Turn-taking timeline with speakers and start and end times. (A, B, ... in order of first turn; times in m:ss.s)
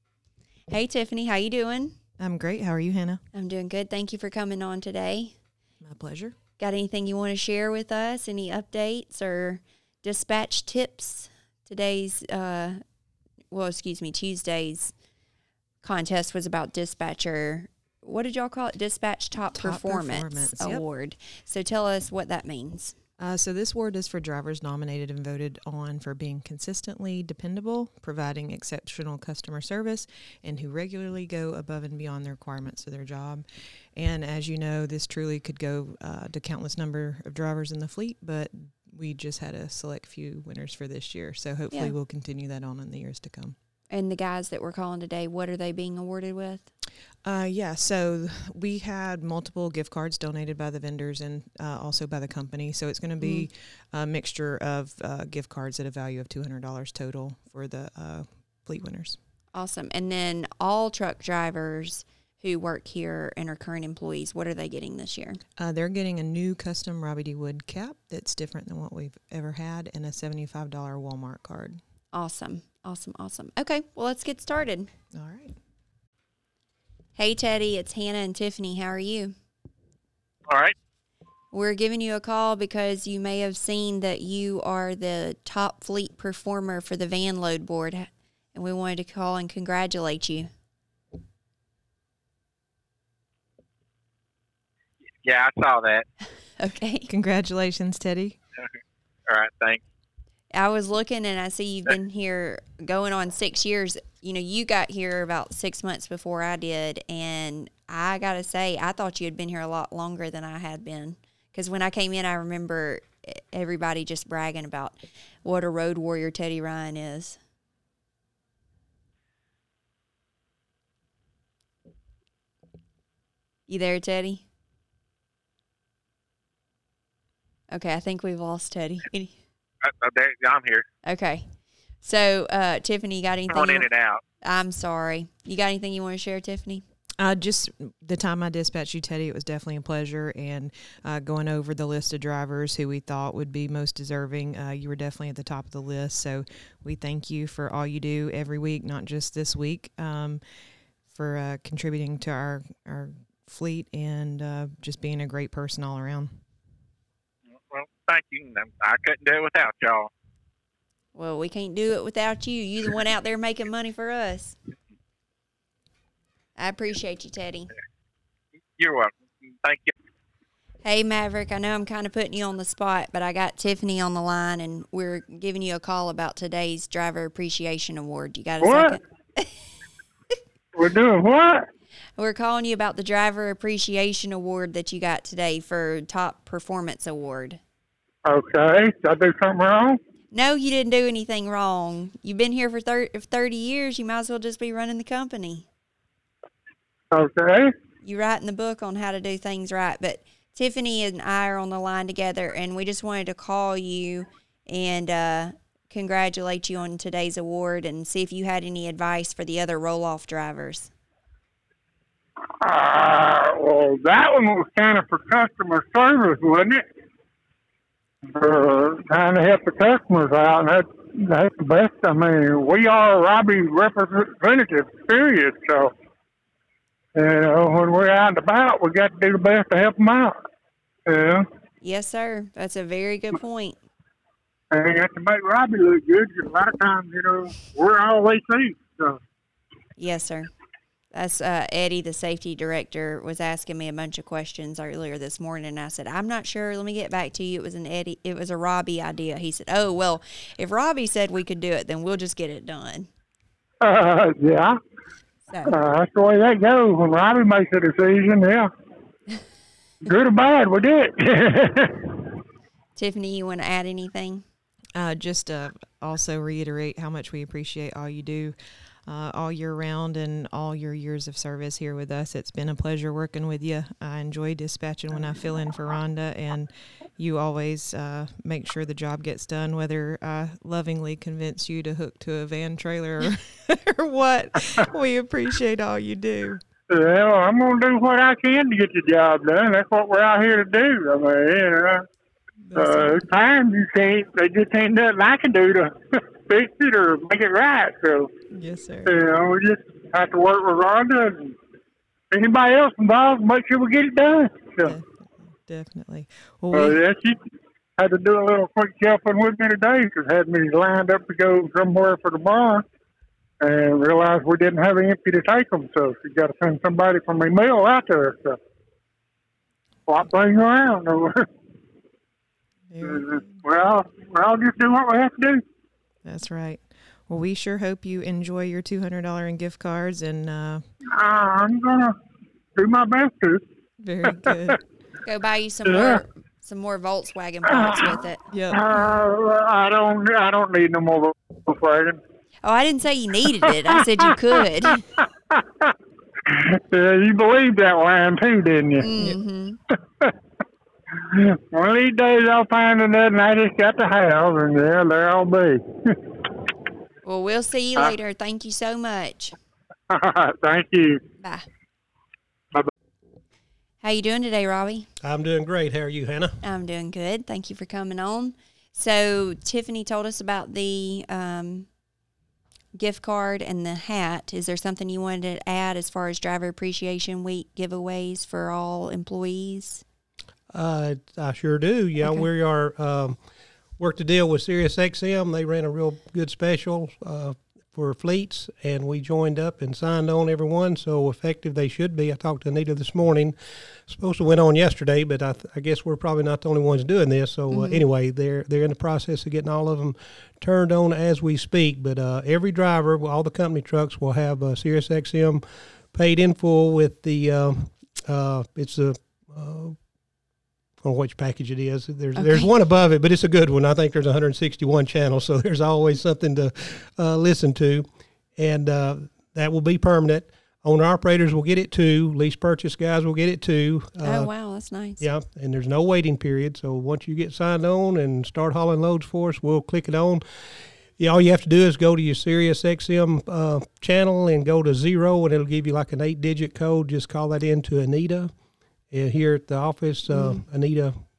0:00.7-0:02.0 A
0:02.2-0:03.2 B
0:03.3-0:05.3 A
0:05.8-0:06.4 B
0:06.6-0:12.8 A
0:13.5-0:14.9 A
0:15.8-0:23.0 A
0:19.4-0:20.8 B
0:23.2-0:33.4 B
0:34.0-0:43.6 B
0:43.9-0:46.7 A
0:47.2-0:59.2 B
0:53.2-0:53.5 A
0:59.5-1:05.4 A
1:05.6-1:11.8 B
1:12.1-1:14.9 A
1:15.1-1:15.6 B
1:17.2-1:19.3 A
1:20.5-1:20.8 C
1:21.5-1:30.5 A
1:35.2-1:36.1 C
1:36.6-1:37.1 A
1:37.1-1:38.4 B
1:39.3-1:39.8 C
1:40.5-1:57.4 A
2:03.7-2:04.4 A
2:07.7-2:09.3 A
2:09.8-2:10.9 C
2:11.0-2:11.5 A
2:12.0-2:13.9 A
2:13.5-2:14.2 C
2:14.4-2:16.8 A
2:17.2-2:30.4 B
2:31.1-2:36.3 B
2:37.5-2:40.1 C
2:41.1-2:44.6 A
2:46.6-2:47.7 A
2:48.8-2:49.9 C
2:50.8-2:59.5 A
2:58.6-2:59.0 D
3:00.8-3:01.7 D
3:02.2-3:07.6 A
3:08.3-3:10.0 D
3:10.3-3:15.7 A
3:17.1-3:17.7 D
3:18.0-3:30.9 A
3:32.6-3:36.8 D
3:38.3-3:45.9 D
3:47.2-3:50.4 D
3:51.1-3:51.4 D
3:51.8-3:53.8 A
3:54.7-3:59.2 D
4:00.0-4:00.5 A
4:01.1-4:13.1 A
4:13.8-4:14.8 D
4:15.5-4:15.8 A
4:15.7-4:18.7 D
4:20.0-4:22.2 D
4:23.0-4:24.4 A
4:25.0-4:46.6 B
4:46.9-4:52.0 D
4:52.6-4:53.3 B
4:52.8-4:58.3 D
4:58.5-4:59.2 B
4:59.1-5:01.6 D
5:02.3-5:05.0 D
5:04.8-5:07.0 B
5:06.7-5:07.4 D
5:08.0-5:12.8 D
5:13.6-5:18.6 D
5:20.1-5:21.4 D
5:22.9-5:23.6 B
5:23.0-5:25.6 D
5:26.2-5:30.8 B
5:31.1-5:32.1 D
5:32.8-5:33.6 D
5:34.0-5:34.8 B
5:34.2-5:34.7 D
5:35.2-5:38.4 A
5:35.8-5:36.2 D
5:37.7-5:38.0 D
5:38.5-5:38.9 B
5:38.7-5:42.2 D
5:42.6-5:45.0 A
5:44.9-5:45.9 D
5:46.5-5:49.4 D
5:49.0-5:49.8 A
5:49.9-5:50.3 D
5:51.2-5:56.2 D
5:57.2-5:59.5 A
6:00.1-6:01.2 D
6:01.4-6:01.7 A
6:04.0-6:05.1 A
6:05.2-6:06.6 E
6:06.6-6:11.9 A
6:13.0-6:20.0 A
6:20.7-6:23.4 E
6:24.0-6:50.0 E
6:37.7-6:38.0 A
6:51.0-6:58.1 E
6:52.4-6:52.7 A
6:58.6-7:04.5 E
7:04.2-7:05.2 A
7:05.2-7:10.4 E
7:11.2-7:18.5 E
7:19.1-7:21.2 E
7:20.3-7:20.6 A